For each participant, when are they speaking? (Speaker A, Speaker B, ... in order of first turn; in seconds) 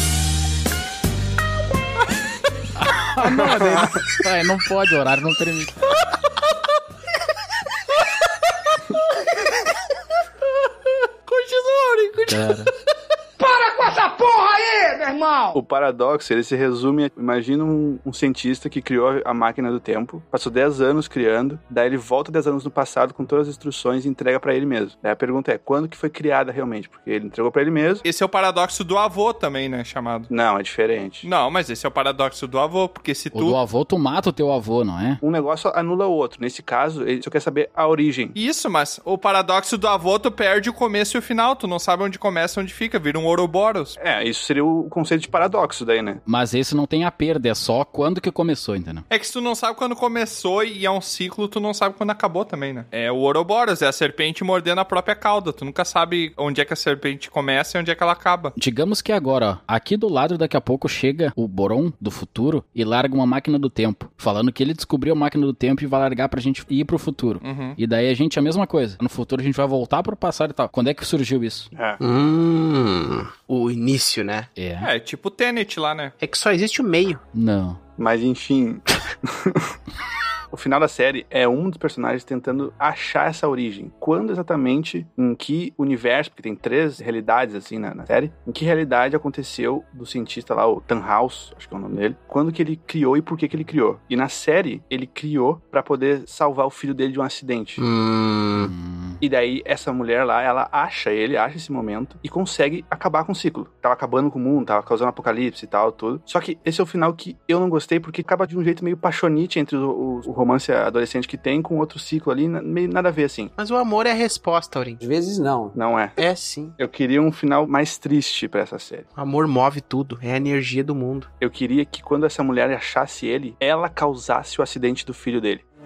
Speaker A: 2.8-5.9, 12.3-12.7, 33.3-35.2, 46.3-49.1, 58.6-71.7, 74.6-74.9, 77.3-77.8, 98.6-99.2
Speaker B: 11.3-12.5, 28.0-30.3, 31.2-33.6, 38.4-44.0, 49.1-58.5, 67.4-67.8, 74.8-76.1
Speaker C: 13.4-15.6
Speaker D: 15.6-28.0, 30.3-31.3, 35.2-38.4, 44.0-46.2, 71.8-72.0, 78.0-79.7, 80.5-97.8, 99.2-113.5, 115.7-116.2, 116.8-119.1, 121.4-125.6
Speaker E: 72.0-74.5, 76.2-77.2, 97.8-98.7, 113.6-115.0, 116.2-116.8, 119.2-121.3